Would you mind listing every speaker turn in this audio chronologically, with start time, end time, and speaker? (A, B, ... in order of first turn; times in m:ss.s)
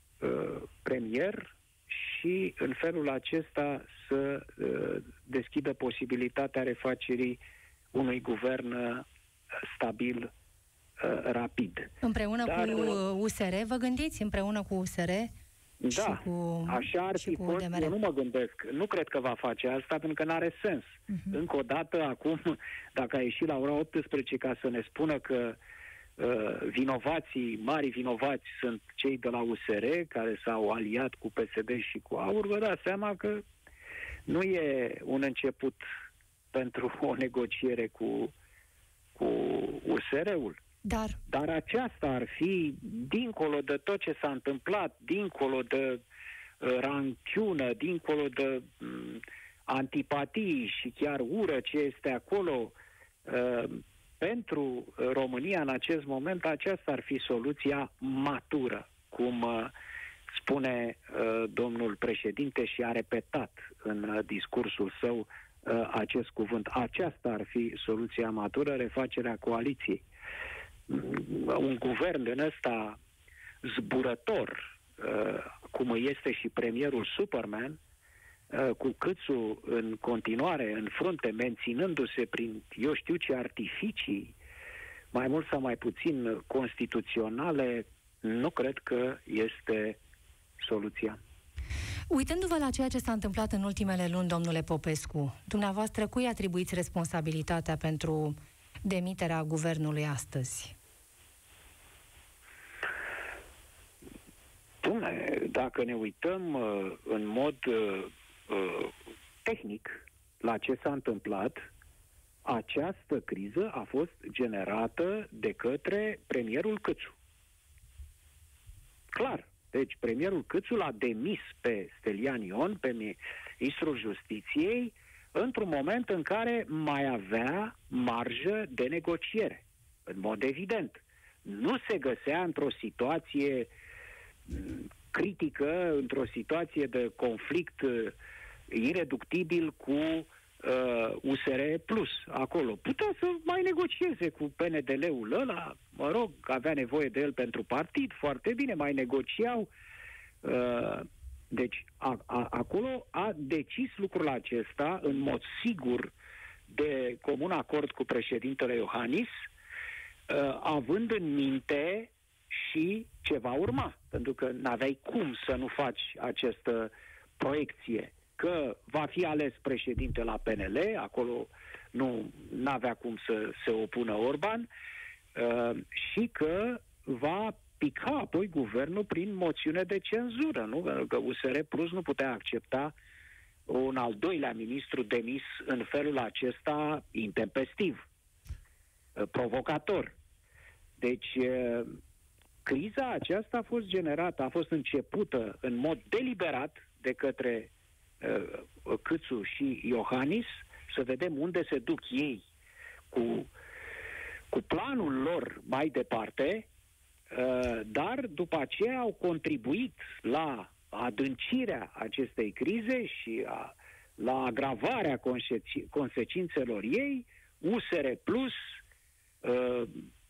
0:00.2-0:07.4 A
0:07.9-0:09.0 A
0:09.6-0:10.3 A
0:11.0-0:13.0 A
0:12.0-0:15.3 B
0:15.8-0:25.6 A
0:15.9-0:17.9 B
0:26.2-0:33.4 A
0:34.3-0:35.8 A
0:36.5-0:38.3 A
0:39.2-0:40.6 A
0:40.8-0:41.2 B
0:41.3-0:46.0 A
0:46.6-0:59.7 A
1:00.3-1:10.0 A
1:10.9-1:13.0 A
1:13.6-1:17.8 A
1:18.5-1:24.3 A
1:25.1-1:30.0 A
1:30.6-1:31.2 A
1:32.1-1:40.8 B
1:44.8-1:48.9 A
1:49.4-1:51.6 A
1:52.4-1:57.2 A
1:59.1-2:13.7 A
2:14.5-2:18.1 A
2:18.7-2:29.7 A
2:30.4-2:36.1 A
2:36.7-2:39.3 A
2:40.3-2:54.7 A
2:55.4-3:02.9 A
3:03.7-3:08.0 A
3:09.2-3:10.1 A
3:11.0-3:12.0 A
3:12.6-3:22.4 A
3:23.1-3:23.5 A
3:24.5-3:26.7 A
3:27.3-3:38.6 A
3:39.4-3:40.0 A